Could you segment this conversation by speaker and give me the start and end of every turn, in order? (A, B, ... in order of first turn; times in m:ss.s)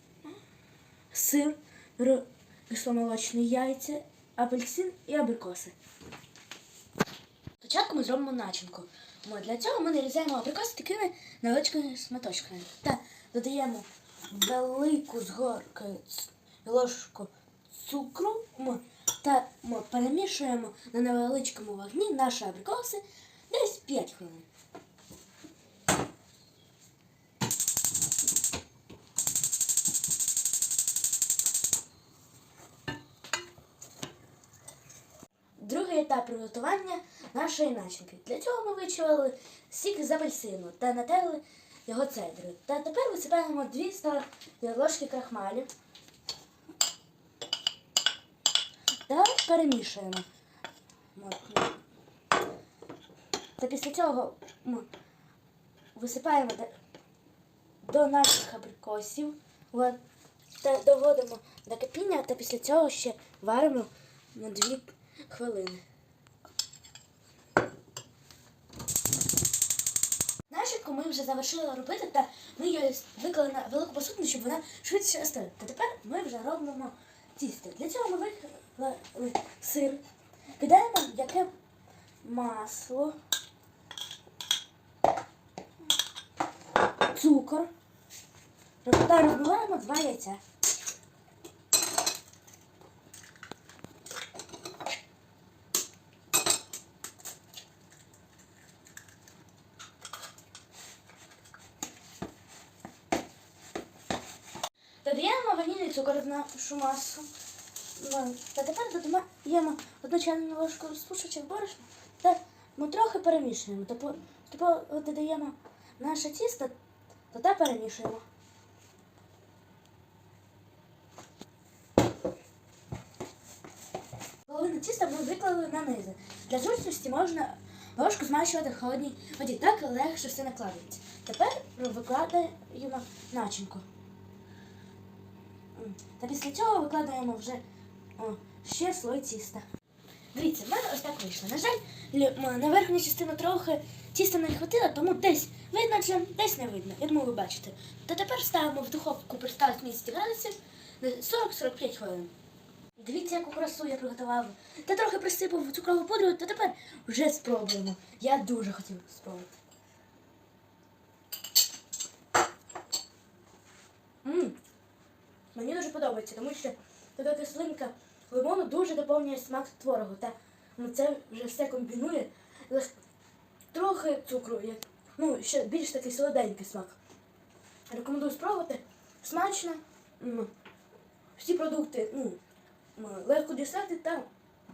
0:01.1-0:05.7 A
0:07.6-0:24.4 A
0:35.6-0:45.7 A
0:49.1-0:50.3 A
0:51.1-0:51.8 A
0:53.6-0:54.9 A
0:55.9-0:56.7 A
0:57.8-1:00.0 A
1:00.6-1:05.8 A
1:10.5-1:20.0 A
1:20.6-1:21.5 A
1:22.2-1:23.2 A
1:27.1-1:27.7 A
1:28.8-1:30.4 A
1:45.0-1:47.3 A
1:48.0-1:56.7 A
1:57.3-1:58.2 A
2:04.5-2:13.8 A
2:15.8-2:17.6 A
2:18.2-2:19.6 A
2:20.3-2:32.3 A
2:33.0-2:39.5 A
2:44.2-2:44.6 A
2:45.5-2:52.9 A
2:53.7-2:57.0 A
2:57.9-3:00.5 A
3:01.4-3:02.4 A
3:03.0-3:04.3 A